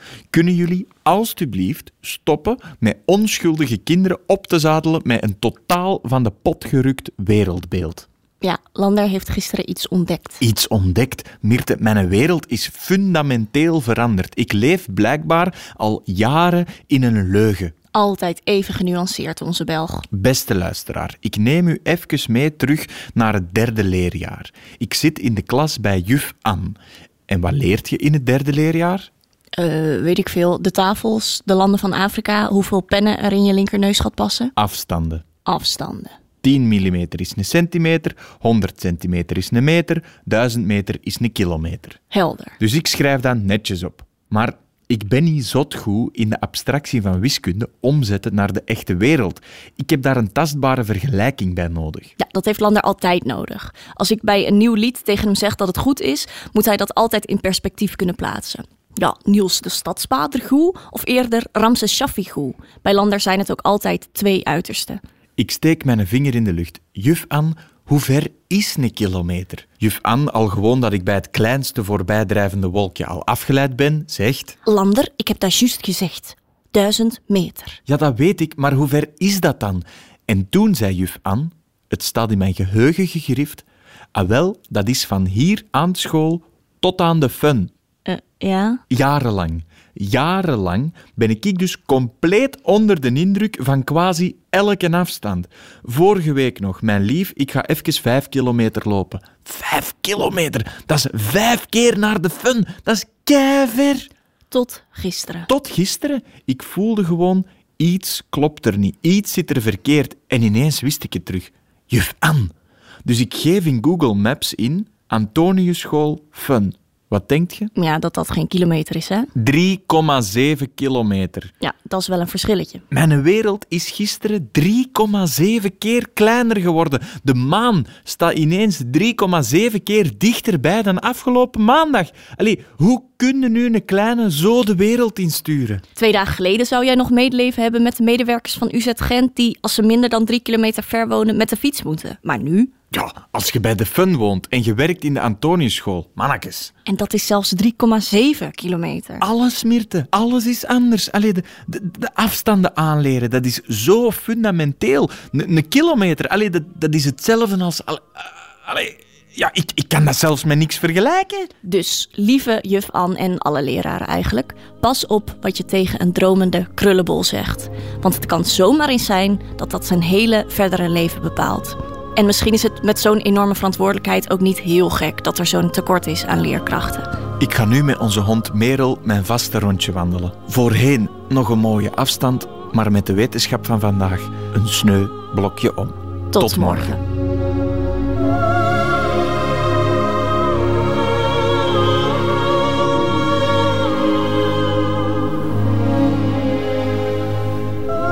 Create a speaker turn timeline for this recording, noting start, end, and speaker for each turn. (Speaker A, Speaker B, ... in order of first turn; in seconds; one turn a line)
Speaker A: 0.3-8.1
Speaker B: 8.4-10.4
Speaker A: 10.4-17.7
Speaker B: 17.9-20.1
Speaker A: 20.1-26.8
Speaker A: 27.3-29.1
Speaker B: 29.6-34.5
Speaker A: 34.5-35.3
Speaker B: 35.4-36.2
Speaker A: 36.4-42.0
Speaker B: 42.1-42.5
Speaker A: 42.6-52.1
Speaker B: 52.2-65.0
Speaker A: 65.4-74.6
Speaker B: 74.6-77.8
Speaker A: 77.9-87.7
Speaker B: 88.0-88.8
Speaker A: 88.9-104.1
Speaker B: 104.5-105.5
Speaker A: 105.5-112.5
Speaker A: 113.0-117.7
Speaker B: 117.7-119.3
Speaker A: 119.3-121.5
Speaker B: 121.6-122.8
Speaker A: 122.9-135.8
Speaker B: 135.9-142.7
Speaker A: 142.9-146.7
Speaker B: 146.8-149.2
Speaker A: 149.2-161.5
Speaker B: 161.6-177.1
Speaker A: 177.4-187.0
Speaker B: 186.3-187.0